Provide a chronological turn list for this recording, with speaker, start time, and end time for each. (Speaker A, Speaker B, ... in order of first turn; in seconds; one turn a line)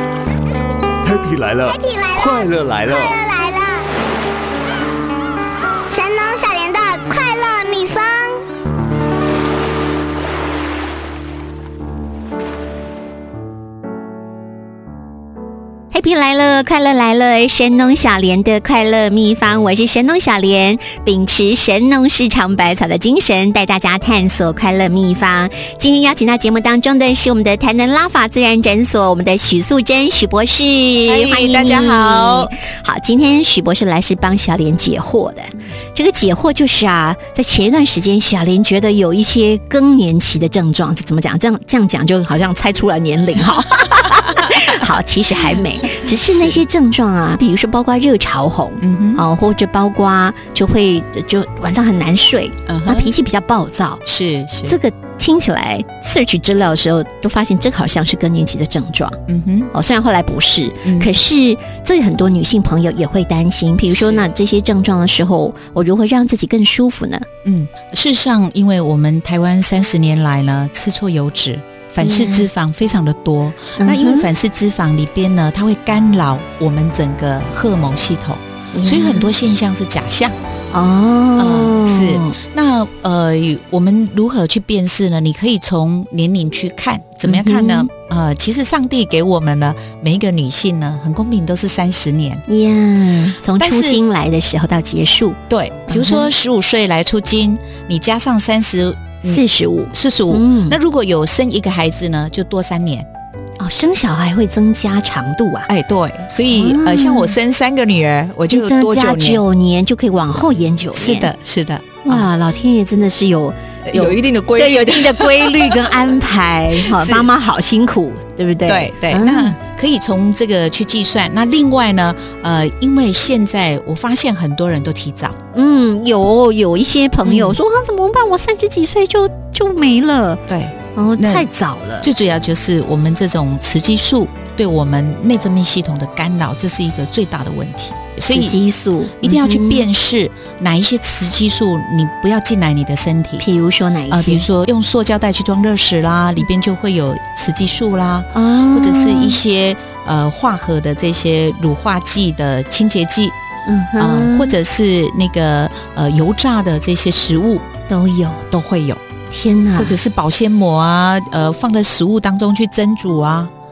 Speaker A: 1.0-3.1
Speaker B: 1.7-3.9
Speaker B: 5.9-8.4
Speaker C: 15.9-54.0
Speaker D: 31.1-32.5
Speaker D: 45.4-46.6
Speaker D: 48.8-49.2
Speaker D: 52.7-53.1
Speaker D: 54.0-54.8
Speaker C: 54.6-59.2
Speaker D: 59.3-59.7
Speaker C: 59.7-67.3
Speaker D: 60.8-61.1
Speaker D: 63.9-64.3
Speaker D: 67.5-80.4
Speaker C: 72.0-72.5
Speaker C: 73.8-74.3
Speaker C: 78.7-79.3
Speaker C: 80.7-82.4
Speaker D: 81.4-92.4
Speaker C: 87.2-87.9
Speaker C: 92.5-96.3
Speaker D: 93.4-94.0
Speaker D: 95.5-103.1
Speaker C: 99.2-100.8
Speaker C: 103.6-105.7
Speaker D: 105.7-109.4
Speaker C: 106.5-107.4
Speaker C: 108.5-111.3
Speaker D: 110.9-112.3
Speaker C: 112.0-119.6
Speaker D: 113.9-116.1
Speaker D: 116.7-117.3
Speaker D: 118.7-125.4
Speaker C: 125.5-130.4
Speaker D: 127.2-127.6
Speaker D: 130.5-131.5
Speaker C: 130.9-132.1
Speaker D: 132.0-138.6
Speaker C: 138.3-139.9
Speaker D: 139.2-143.4
Speaker C: 143.4-144.5
Speaker D: 144.1-153.3
Speaker C: 148.3-149.4
Speaker C: 153.7-154.6
Speaker D: 154.0-157.7
Speaker C: 157.9-158.4
Speaker D: 158.5-159.0
Speaker C: 159.3-160.0
Speaker D: 159.8-163.5